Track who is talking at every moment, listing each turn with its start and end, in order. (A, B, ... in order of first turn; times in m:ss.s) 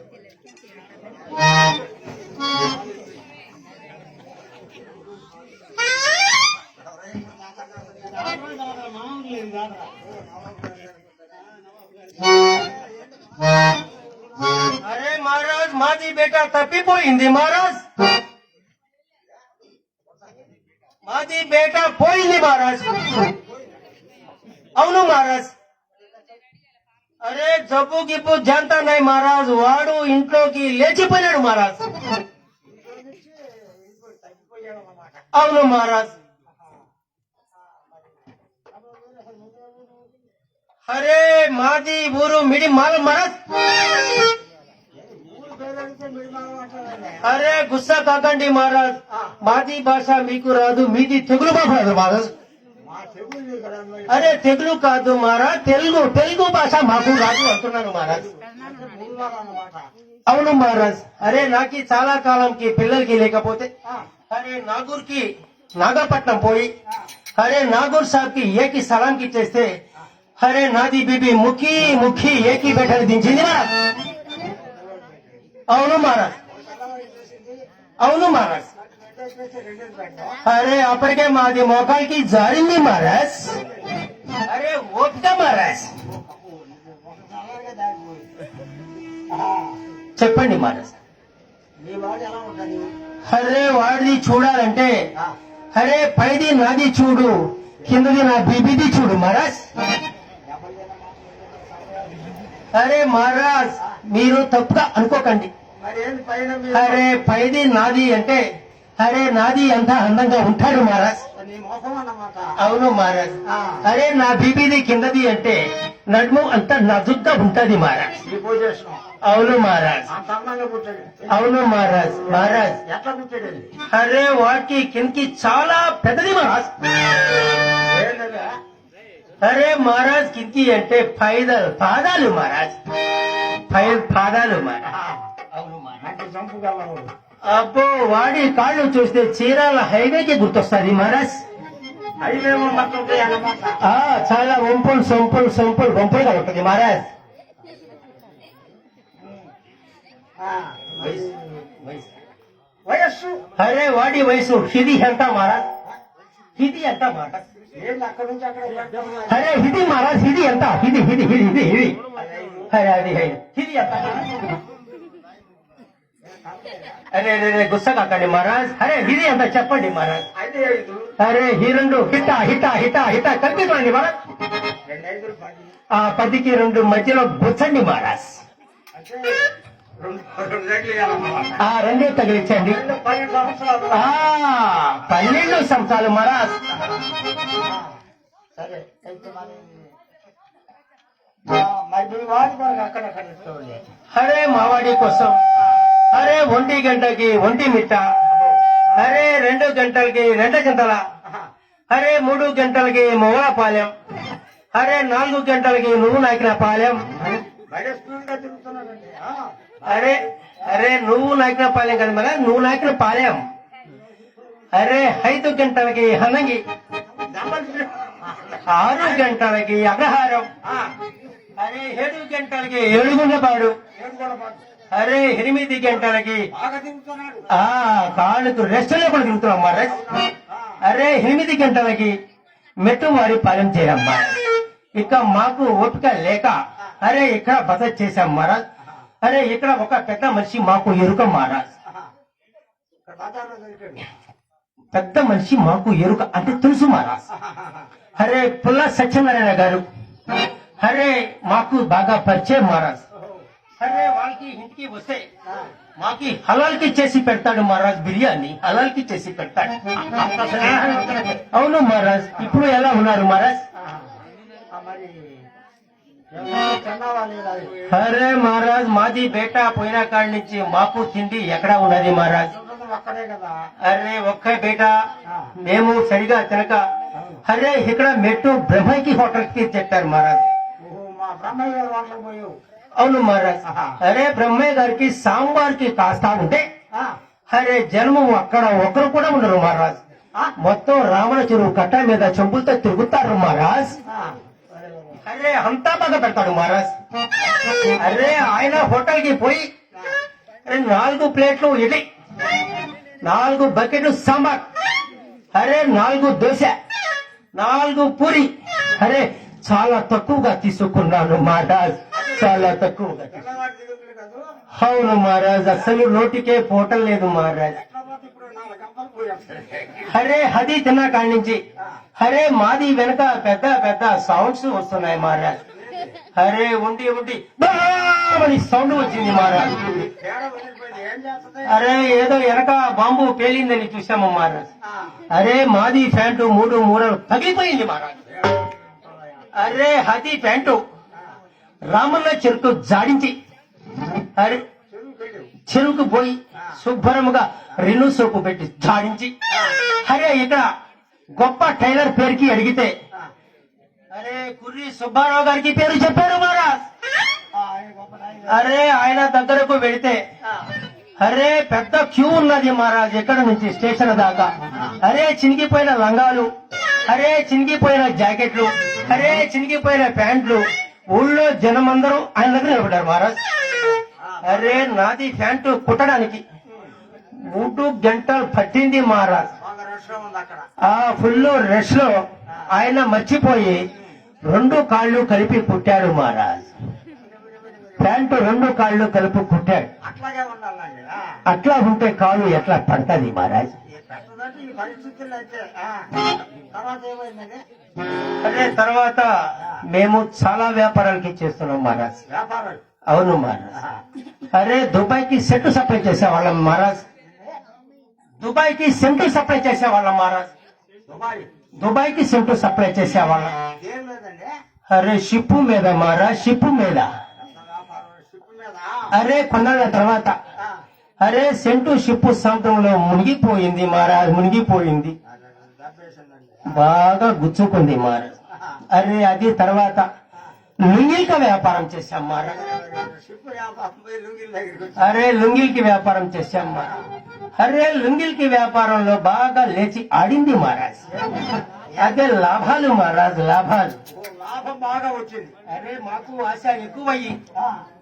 0:07.1-0:10.1 A
0:14.8-0:17.8 B
0:21.0-0:22.9 B
0:24.8-0:25.5 B
0:27.2-0:31.8 B
0:32.7-0:35.3 A
0:35.3-0:36.1 B
0:38.8-0:40.0 A
0:40.9-0:43.4 B
0:44.9-0:47.4 A
0:47.2-0:52.3 B
0:52.8-0:54.4 A
0:54.1-0:58.3 B
0:58.1-0:59.9 A
1:00.3-1:03.7 B
1:04.3-1:05.2 B
1:05.8-1:06.7 B
1:07.4-1:09.7 B
1:10.4-1:13.7 B
1:14.4-1:15.4 A
1:15.7-1:16.3 B
1:16.4-1:17.6 A
1:18.0-1:18.7 B
1:18.7-1:20.4 A
1:20.4-1:23.6 B
1:24.4-1:25.9 B
1:26.1-1:28.3 A
1:29.3-1:29.8 A
1:30.2-1:31.0 B
1:31.8-1:32.9 A
1:33.3-1:34.9 B
1:35.7-1:39.7 B
1:40.4-1:42.4 A
1:42.7-1:45.5 B
1:45.8-1:47.0 A
1:46.7-1:48.4 B
1:49.0-1:51.2 B
1:51.3-1:52.6 A
1:52.6-1:58.2 B
1:53.5-1:53.8 A
1:58.2-1:59.0 A
1:59.2-2:00.1 B
2:00.1-2:01.4 A
2:01.3-2:02.8 B
2:02.3-2:03.7 A
2:03.8-2:06.7 B
2:07.8-2:08.6 A
2:09.4-2:12.8 B
2:13.7-2:14.9 B
2:15.5-2:16.0 B
2:16.0-2:17.1 A
2:17.4-2:21.4 B
2:22.2-2:23.8 A
2:23.8-2:27.1 B
2:30.4-2:31.6 A
2:32.8-2:33.5 A
2:33.6-2:35.6 B
2:36.6-2:37.4 B
2:37.7-2:39.5 A
2:39.3-2:42.0 B
2:42.1-2:42.7 A
2:42.7-2:44.2 B
2:46.2-2:47.0 A
2:47.1-2:50.2 B
2:50.4-2:51.1 A
2:51.2-2:54.2 B
2:54.8-2:55.8 A
2:55.9-2:58.4 B
2:58.9-2:59.4 A
3:00.0-3:01.6 A
3:01.6-3:02.8 B
3:02.6-3:04.1 A
3:03.9-3:06.6 B
3:07.5-3:07.9 A
3:08.6-3:09.9 A
3:11.5-3:13.8 A
3:14.1-3:15.4 B
3:16.1-3:18.0 B
3:19.0-3:21.0 B
3:21.9-3:23.9 B
3:24.7-3:27.0 B
3:27.2-3:30.1 A
3:29.8-3:33.4 B
3:34.7-3:36.6 B
3:37.2-3:38.6 A
3:38.6-3:40.5 B
3:40.7-3:40.9 A
3:41.6-3:43.7 B
3:44.0-3:44.6 A
3:44.9-3:46.4 B
3:46.5-3:47.5 A
3:47.5-3:50.0 B
3:49.9-3:50.8 A
3:50.8-3:52.1 B
3:52.8-3:54.3 B
3:54.9-3:58.6 B
3:59.2-4:01.7 B
4:03.1-4:04.0 A
4:04.9-4:07.2 B
4:07.3-4:07.9 A
4:08.2-4:09.8 B
4:10.8-4:13.0 B
4:13.2-4:13.4 A
4:13.8-4:15.2 B
4:15.5-4:15.7 A
4:16.0-4:19.9 B
4:20.0-4:21.4 A
4:21.5-4:23.6 B
4:23.8-4:24.2 A
4:24.7-4:25.4 A
4:26.3-4:27.9 A
4:27.9-4:32.5 B
4:32.5-4:33.7 A
4:33.8-4:35.0 B
4:35.6-4:36.8 B
4:37.4-4:40.4 B
4:40.8-4:42.6 A
4:43.0-4:46.6 B
4:43.6-4:44.0 A
4:47.5-4:50.0 B
4:50.6-4:54.0 B
4:54.1-4:55.2 A
4:55.2-4:56.9 B
4:57.8-4:59.6 B
5:00.6-5:02.0 B
5:03.2-5:04.6 B
5:05.5-5:06.7 B
5:07.5-5:13.4 B
5:13.3-5:14.5 A
5:14.7-5:17.8 B
5:17.8-5:20.2 A
5:20.0-5:21.6 B
5:22.2-5:25.6 B
5:25.6-5:26.1 A
5:26.3-5:29.9 B
5:29.8-5:32.1 A
5:31.7-5:34.6 B
5:34.8-5:35.2 A
5:35.3-5:38.2 B
5:38.3-5:39.5 A
5:39.5-5:40.8 B
5:41.9-5:43.3 B
5:44.4-5:44.6 B
5:44.9-5:45.5 A
5:45.6-5:50.7 B
5:49.5-5:49.8 A
5:51.4-5:52.9 B
5:54.1-5:56.8 B
5:57.5-5:58.7 A
5:58.5-6:00.2 B
6:01.2-6:06.5 B
6:07.0-6:13.4 B
6:14.2-6:14.6 A
6:14.4-6:16.4 B
6:17.5-6:19.5 B
6:19.6-6:20.7 A
6:20.8-6:23.8 B
6:24.4-6:26.6 B
6:27.2-6:28.1 A
6:28.0-6:29.9 B
6:30.0-6:31.4 A
6:31.5-6:33.7 B
6:33.9-6:37.6 A
6:38.4-6:42.1 B
6:42.3-6:42.8 A
6:43.1-6:43.8 B
6:44.5-6:47.0 B
6:48.4-6:50.5 B
6:51.1-6:51.5 A
6:51.8-6:53.6 B
6:53.6-6:54.5 A
6:54.9-6:57.1 B
6:57.5-6:59.1 A
6:59.1-7:00.3 B
7:01.2-7:05.1 B
7:05.3-7:06.8 A
7:06.7-7:08.3 B
7:08.9-7:10.1 B
7:10.9-7:12.6 B
7:12.3-7:15.2 A
7:15.0-7:16.9 B
7:17.6-7:21.0 B
7:21.1-7:22.1 A
7:21.9-7:24.0 B
7:24.1-7:25.5 A
7:25.7-7:27.4 B